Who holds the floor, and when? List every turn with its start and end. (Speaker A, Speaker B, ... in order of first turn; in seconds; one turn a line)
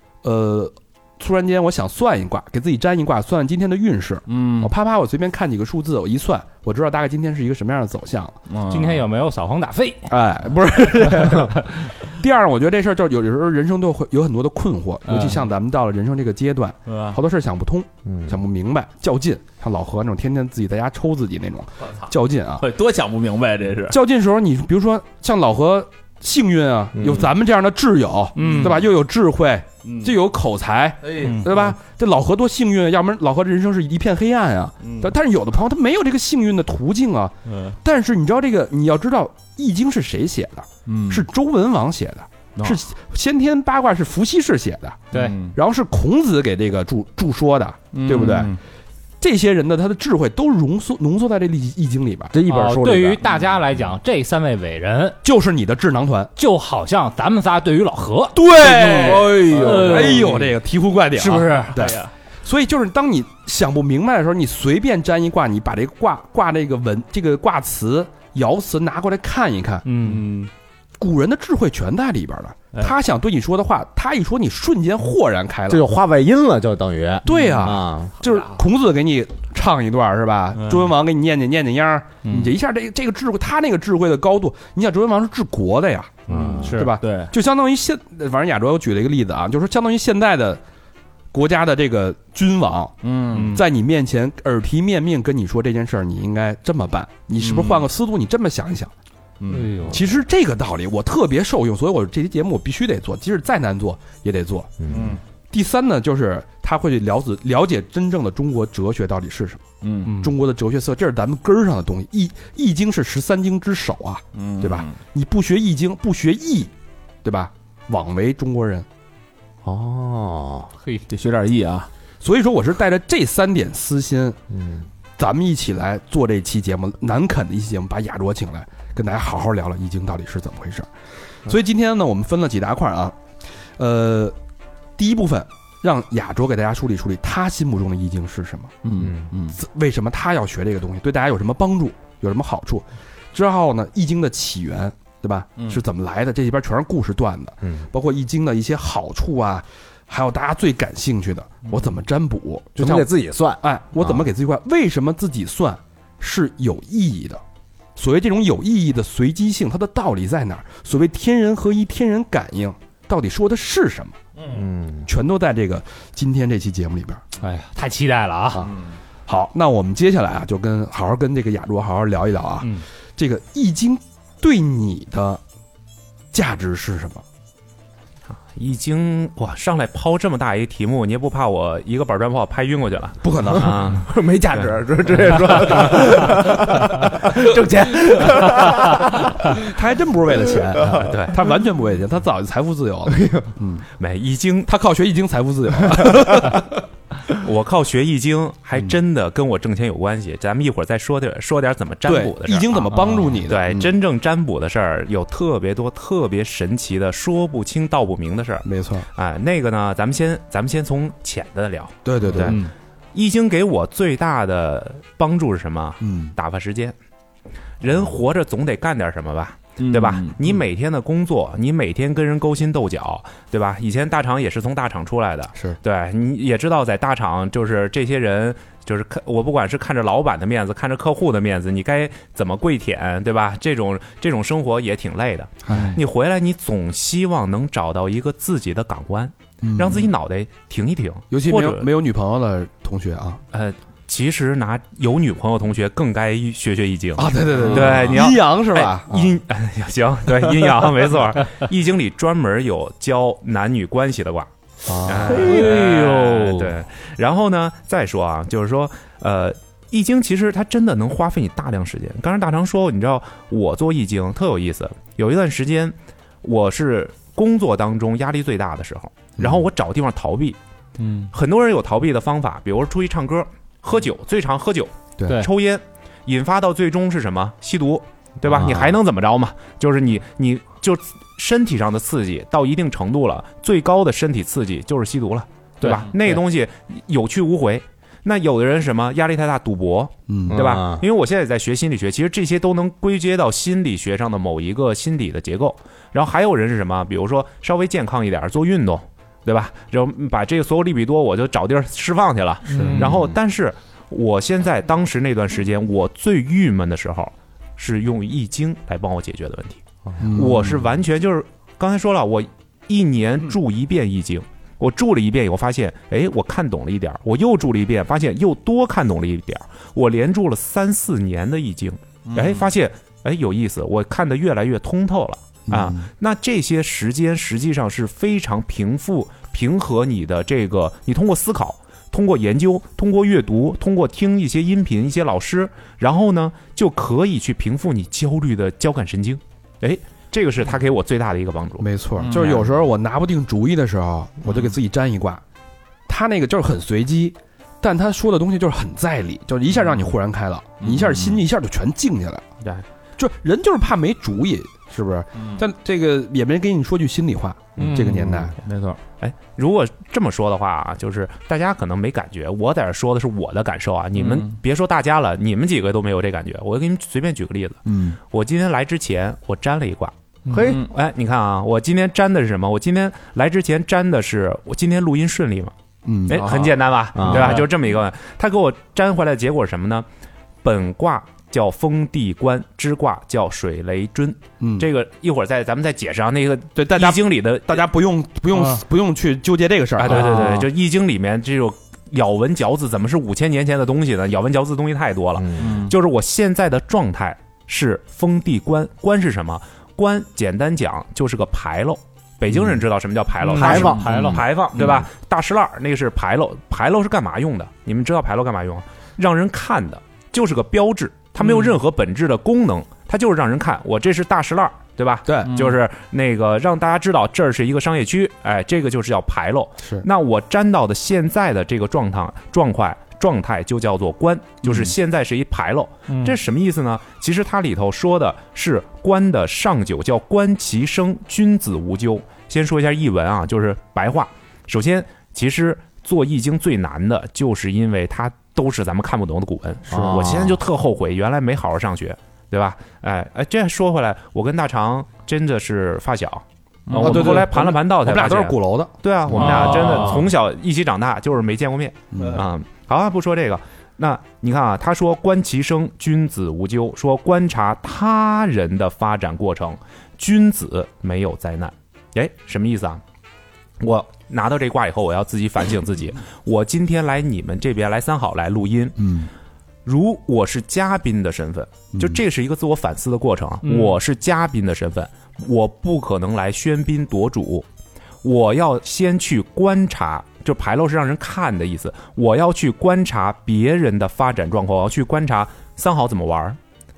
Speaker A: 0.2-8.3
Speaker B: 4.3-4.7
Speaker B: 8.5-9.0
Speaker C: 8.7-10.1
Speaker A: 10.1-22.6
Speaker C: 11.1-11.4
Speaker B: 15.1-15.4
Speaker B: 16.9-17.2
Speaker D: 18.0-18.3
Speaker B: 22.6-24.0
Speaker A: 23.9-45.0
Speaker D: 27.0-27.3
Speaker B: 28.3-28.9
Speaker B: 29.8-30.1
Speaker B: 31.0-31.7
Speaker B: 34.8-35.1
Speaker B: 37.5-37.8
Speaker B: 40.9-41.3
Speaker C: 45.1-45.4
Speaker B: 45.1-45.5
Speaker A: 45.5-48.5
Speaker B: 47.9-48.6
Speaker A: 49.2-52.3
Speaker D: 52.3-53.2
Speaker C: 52.5-55.2
Speaker A: 55.2-56.3
Speaker C: 56.4-60.4
Speaker A: 58.3-69.9
Speaker B: 58.5-60.5
Speaker C: 61.1-62.0
Speaker B: 61.8-62.1
Speaker C: 69.8-70.3
Speaker B: 70.0-70.5
Speaker A: 71.0-75.9
Speaker D: 75.7-78.1
Speaker A: 77.2-90.6
Speaker B: 77.3-77.7
Speaker B: 80.5-80.9
Speaker D: 86.3-86.7
Speaker B: 86.3-87.3
Speaker C: 86.4-86.9
Speaker A: 91.3-98.9
Speaker B: 93.0-93.6
Speaker C: 93.3-93.6
Speaker B: 97.4-97.8
Speaker B: 99.4-99.7
Speaker C: 99.5-100.0
Speaker A: 99.8-104.7
Speaker D: 104.8-105.2
Speaker B: 104.9-105.2
Speaker A: 105.5-109.6
Speaker B: 109.8-110.2
Speaker C: 110.0-110.3
Speaker A: 110.2-116.7
Speaker B: 114.3-115.0
Speaker A: 117.2-118.8
Speaker D: 119.6-120.7
Speaker B: 121.1-121.9
Speaker A: 122.2-124.4
Speaker D: 124.5-124.9
Speaker A: 125.2-130.9
Speaker A: 131.4-133.2
Speaker A: 133.8-134.3
Speaker A: 135.0-138.7
Speaker B: 138.8-139.6
Speaker D: 139.0-139.3
Speaker A: 139.5-153.1
Speaker D: 147.6-147.9
Speaker D: 152.8-154.3
Speaker A: 153.6-157.4
Speaker A: 157.9-164.1
Speaker B: 164.4-164.6
Speaker D: 164.5-165.1
Speaker A: 165.1-167.2
Speaker C: 167.4-168.7
Speaker A: 169.3-175.4
Speaker A: 176.3-177.2
Speaker E: 178.4-184.1
Speaker A: 183.2-183.8
Speaker D: 183.5-189.6
Speaker A: 189.5-193.8
Speaker D: 190.8-191.1
Speaker E: 190.9-191.4
Speaker D: 193.1-193.5
Speaker E: 194.0-194.7
Speaker A: 194.7-196.7
Speaker E: 197.3-212.6
Speaker A: 202.0-203.9
Speaker C: 202.9-203.4
Speaker A: 208.6-209.1
Speaker A: 212.0-212.6
Speaker C: 212.4-212.7
Speaker E: 213.1-216.9
Speaker A: 216.0-216.3
Speaker E: 217.8-241.9
Speaker B: 219.8-220.4
Speaker A: 235.7-236.0
Speaker A: 239.6-240.1
Speaker A: 241.3-243.4
Speaker E: 243.5-254.5
Speaker A: 247.2-249.4
Speaker A: 254.9-255.5
Speaker E: 255.0-270.6
Speaker D: 255.1-256.5
Speaker C: 255.4-256.1
Speaker A: 269.4-269.6
Speaker C: 271.0-271.3
Speaker E: 271.3-342.6
Speaker D: 278.4-278.9
Speaker A: 290.3-290.6
Speaker D: 290.5-291.0
Speaker C: 302.7-303.1
Speaker D: 303.0-303.3
Speaker A: 310.2-310.8
Speaker B: 322.3-322.7
Speaker A: 325.7-326.1
Speaker A: 341.8-345.4
Speaker B: 342.2-342.6
Speaker A: 346.1-352.4
Speaker B: 350.8-351.4
Speaker A: 353.2-358.6
Speaker B: 357.8-359.0
Speaker E: 359.2-370.1
Speaker B: 364.2-364.5
Speaker A: 367.9-368.2
Speaker C: 370.5-370.7
Speaker D: 370.5-370.9
Speaker B: 370.5-370.9
Speaker E: 370.7-375.7
Speaker A: 376.0-376.6
Speaker E: 376.3-380.1
Speaker B: 376.4-376.7
Speaker D: 377.1-377.6
Speaker B: 377.2-377.6
Speaker E: 380.6-387.9
Speaker A: 384.6-384.9
Speaker A: 386.7-390.6
Speaker C: 388.5-388.8
Speaker E: 390.0-463.0
Speaker D: 395.4-395.8
Speaker B: 395.6-395.9
Speaker C: 403.5-404.4
Speaker D: 403.5-405.0
Speaker B: 404.8-405.0
Speaker B: 411.4-411.7
Speaker A: 415.2-415.5
Speaker B: 415.5-415.8
Speaker A: 424.6-424.9
Speaker A: 439.9-440.2
Speaker D: 439.9-440.6
Speaker B: 446.9-447.4
Speaker A: 446.9-450.1
Speaker B: 449.3-450.3
Speaker A: 452.1-452.4
Speaker E: 463.8-469.1
Speaker A: 469.0-469.3
Speaker E: 469.8-477.6
Speaker A: 471.9-472.2
Speaker C: 473.6-474.0
Speaker E: 478.2-486.6